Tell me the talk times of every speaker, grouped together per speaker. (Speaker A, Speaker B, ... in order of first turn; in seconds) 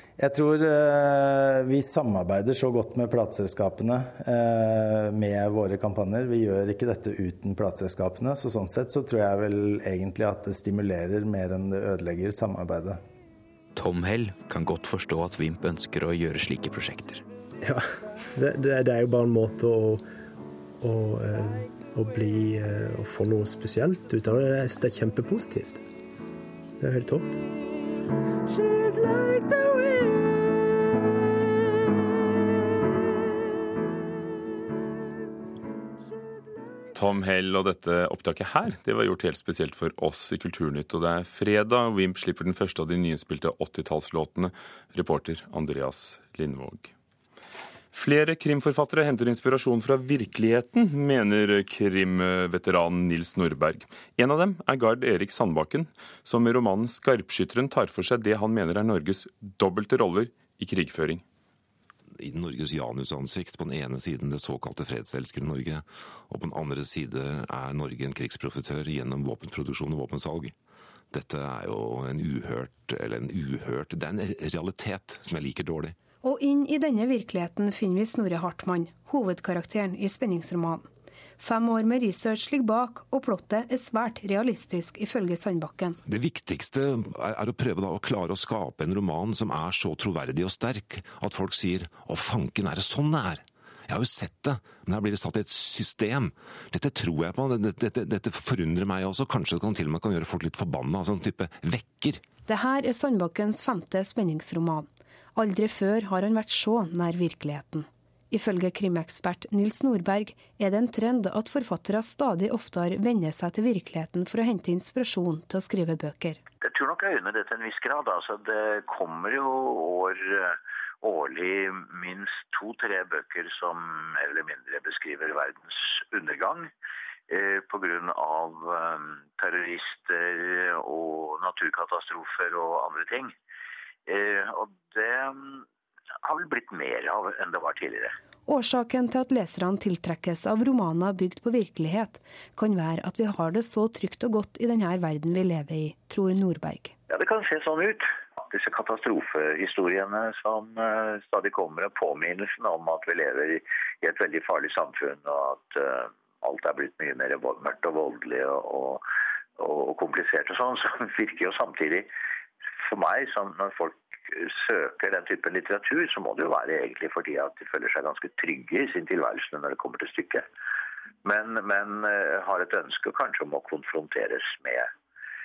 Speaker A: 0.2-13.0
Speaker B: 13.8-17.2
Speaker C: 18.3-20.0, 20.8-25.8, 26.8-27.3
Speaker D: 36.9-46.9, 47.9-61.2
Speaker E: 62.2-70.5, 71.1-76.0, 86.0-102.2
Speaker F: 76.2-80.8, 81.4-86.0, 102.5-116.4, 138.5-146.9
Speaker G: 116.6-126.7, 127.3-133.3, 134.1-135.6, 136.2-138.1, 147.1-159.0, 159.6-162.1, 162.9-170.4, 171.2-174.9